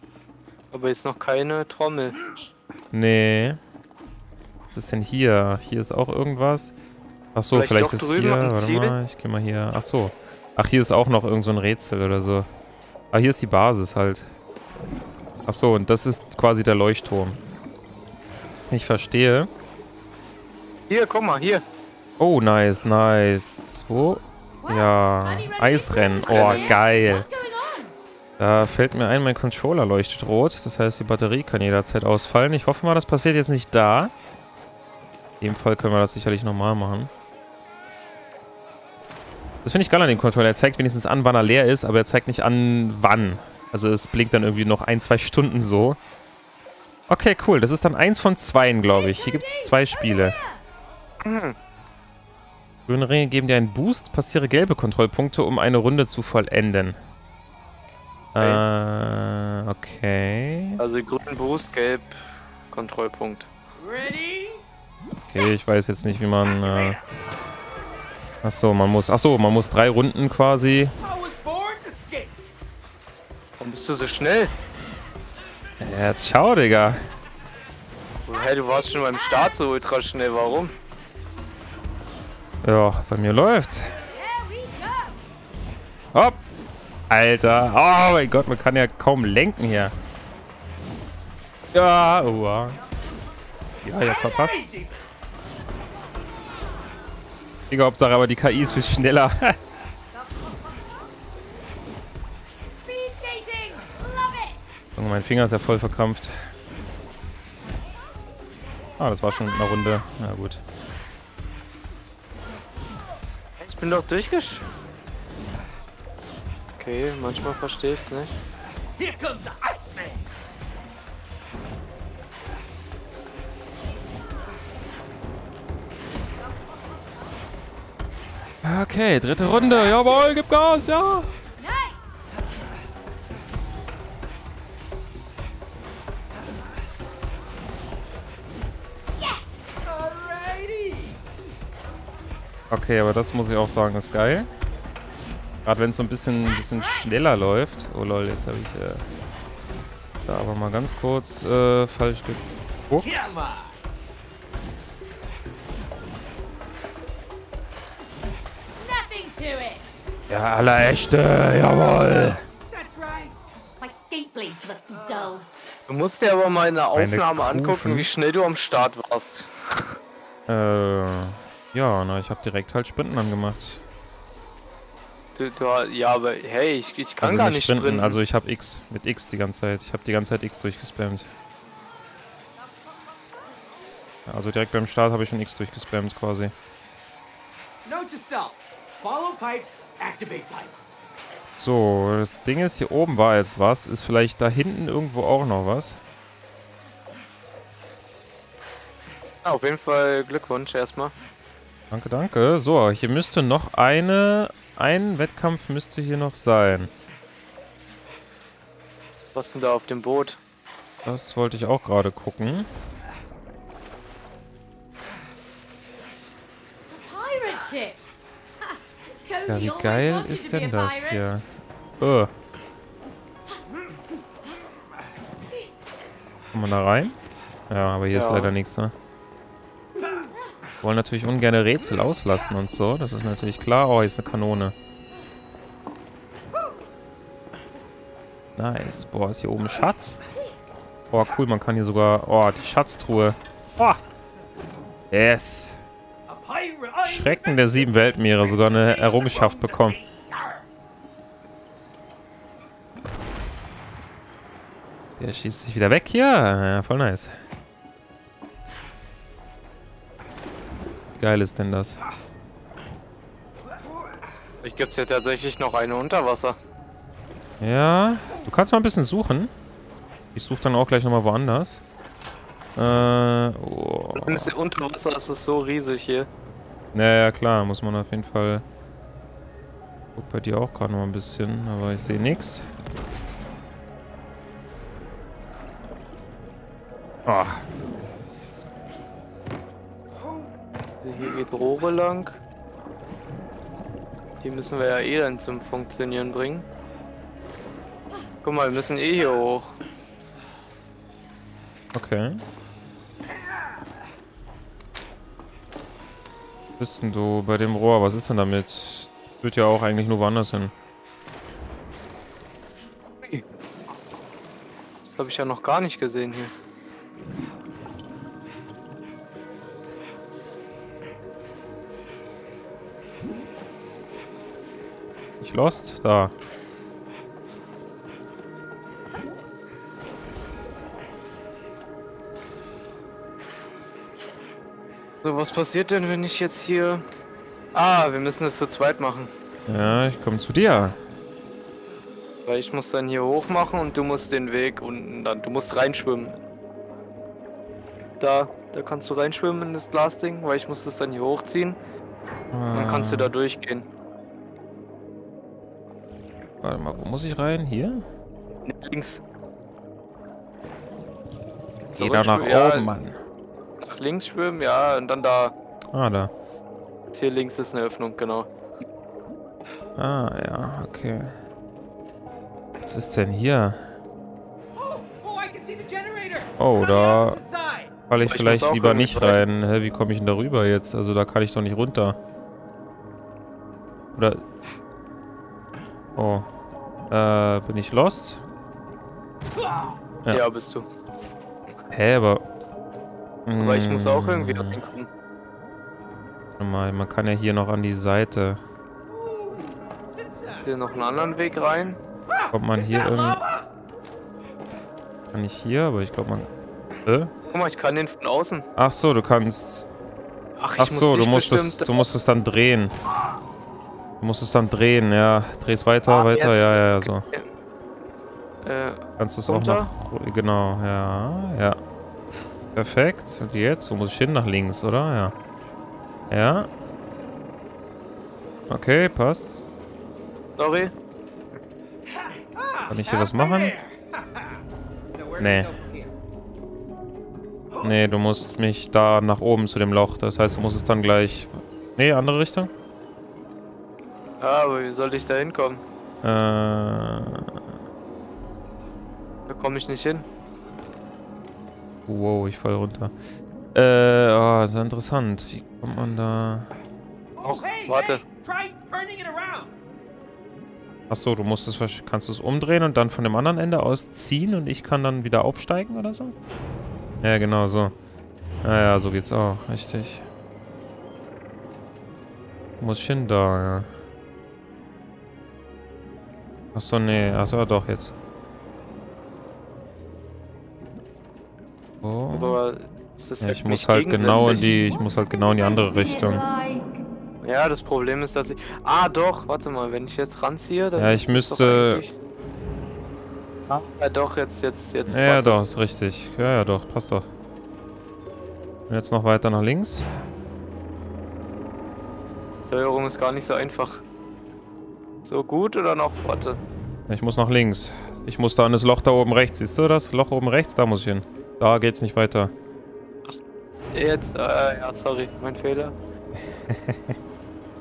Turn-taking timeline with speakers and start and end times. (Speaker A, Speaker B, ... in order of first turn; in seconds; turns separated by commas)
Speaker A: 0.7-2.2, Speaker B: 2.9-3.6, Speaker B: 4.7-6.7, Speaker B: 7.3-12.5, Speaker A: 7.5-9.0, Speaker B: 13.1-14.3, Speaker B: 15.5-17.4, Speaker B: 18.7-19.5, Speaker A: 20.9-21.6, Speaker B: 22.2-27.3, Speaker C: 24.6-27.9, Speaker A: 26.2-26.8, Speaker B: 28.4-34.1, Speaker B: 35.4-37.1, Speaker B: 39.6-46.0, Speaker B: 47.1-50.4, Speaker C: 48.9-50.6, Speaker A: 51.2-51.6, Speaker B: 52.9-57.0, Speaker B: 58.4-60.8, Speaker A: 60.8-63.5, Speaker D: 63.8-64.6, Speaker B: 65.3-67.0, Speaker D: 66.5-67.0, Speaker B: 68.4-70.9, Speaker D: 71.0-72.5, Speaker A: 73.6-74.5, Speaker B: 75.8-77.0, Speaker A: 78.3-80.7, Speaker C: 78.3-79.5, Speaker B: 82.6-84.0, Speaker C: 84.1-85.2, Speaker B: 86.1-86.4, Speaker B: 87.1-89.9, Speaker B: 91.7-92.8, Speaker B: 93.8-94.6, Speaker C: 94.1-94.6, Speaker D: 94.2-94.8, Speaker B: 97.7-99.6, Speaker C: 102.8-104.7, Speaker B: 105.0-106.4, Speaker B: 109.0-110.6, Speaker A: 113.6-114.7, Speaker A: 116.8-118.4, Speaker D: 119.0-120.3, Speaker B: 128.6-131.3, Speaker C: 131.6-132.2, Speaker C: 139.2-139.6, Speaker D: 139.8-141.2, Speaker B: 142.7-144.5, Speaker B: 145.7-149.1, Speaker B: 150.2-153.4, Speaker D: 153.0-153.8, Speaker C: 158.8-159.9, Speaker B: 160.3-162.4, Speaker D: 162.7-163.3, Speaker C: 163.8-165.5, Speaker A: 165.9-170.0, Speaker B: 166.9-168.1, Speaker B: 170.5-173.8, Speaker A: 175.4-178.2, Speaker B: 177.2-181.3, Speaker B: 184.3-186.5, Speaker D: 187.8-191.0, Speaker B: 191.6-196.0, Speaker A: 199.4-201.1, Speaker B: 201.9-206.9, Speaker A: 209.3-210.4, Speaker B: 211.1-212.7, Speaker C: 216.9-218.0, Speaker C: 218.6-221.4, Speaker B: 219.5-221.4, Speaker B: 222.0-222.3, Speaker B: 226.5-227.2, Speaker B: 227.7-228.9, Speaker A: 228.1-228.5, Speaker B: 230.8-234.7, Speaker B: 238.6-240.2, Speaker B: 241.1-244.0, Speaker B: 245.1-245.8, Speaker D: 246.3-250.7, Speaker B: 247.0-250.0, Speaker B: 255.2-257.4, Speaker B: 261.2-262.0, Speaker A: 264.6-266.6, Speaker B: 267.6-269.5, Speaker B: 270.3-271.8, Speaker B: 272.8-274.5, Speaker A: 274.1-276.3, Speaker B: 276.9-278.6, Speaker B: 280.1-282.7, Speaker B: 287.3-287.6, Speaker A: 291.0-292.4, Speaker A: 294.4-296.6, Speaker A: 298.4-299.8, Speaker B: 301.9-302.4, Speaker B: 306.8-310.7, Speaker A: 315.1-316.5, Speaker B: 325.4-326.3, Speaker A: 335.2-337.1, Speaker A: 337.7-339.3, Speaker B: 339.7-341.0, Speaker A: 342.5-346.4, Speaker A: 348.2-351.8, Speaker B: 352.5-353.3, Speaker A: 352.7-353.9, Speaker B: 356.6-358.1, Speaker A: 358.7-359.2, Speaker A: 361.9-362.9, Speaker B: 362.0-363.2, Speaker A: 363.8-365.5, Speaker B: 365.9-366.3, Speaker A: 367.1-368.5, Speaker B: 370.0-371.3, Speaker B: 372.9-373.9, Speaker D: 374.8-377.9, Speaker B: 376.6-377.4, Speaker B: 378.1-382.2, Speaker A: 378.2-379.4, Speaker B: 384.1-384.4, Speaker B: 386.2-386.5, Speaker B: 387.1-388.4, Speaker D: 389.6-390.0, Speaker A: 390.3-390.9, Speaker B: 391.9-392.4, Speaker B: 393.5-394.8, Speaker A: 393.6-395.1, Speaker B: 396.6-398.6, Speaker D: 399.0-400.7, Speaker A: 400.6-402.0, Speaker D: 402.3-403.6, Speaker B: 402.5-403.4, Speaker B: 405.3-406.5, Speaker B: 407.1-407.3, Speaker A: 407.5-408.7, Speaker B: 408.8-409.9, Speaker A: 410.6-412.1, Speaker B: 410.8-412.9, Speaker B: 414.2-417.2, Speaker A: 416.1-417.5, Speaker A: 418.6-419.9, Speaker B: 419.2-421.8, Speaker B: 422.8-425.4, Speaker B: 426.3-426.7, Speaker B: 428.7-429.7, Speaker A: 430.6-430.9, Speaker D: 432.1-436.1, Speaker B: 432.9-433.7, Speaker B: 435.4-435.7, Speaker B: 437.8-442.7, Speaker A: 444.4-445.8, Speaker B: 446.2-447.6, Speaker A: 449.5-450.3, Speaker B: 452.1-453.1, Speaker B: 453.7-456.7, Speaker D: 457.4-459.8, Speaker A: 457.4-458.2, Speaker B: 461.1-466.4, Speaker B: 467.2-467.9, Speaker B: 468.6-470.2, Speaker B: 472.8-473.9, Speaker B: 476.7-478.1, Speaker B: 482.0-482.6, Speaker A: 482.3-484.7, Speaker B: 483.4-486.4, Speaker C: 484.5-487.0, Speaker A: 487.4-492.1, Speaker B: 491.0-492.0, Speaker A: 493.7-495.6, Speaker B: 495.1-497.3, Speaker B: 498.9-500.1, Speaker A: 502.7-504.0, Speaker A: 505.2-506.6, Speaker B: 507.1-512.5, Speaker A: 513.9-516.0, Speaker B: 516.5-517.2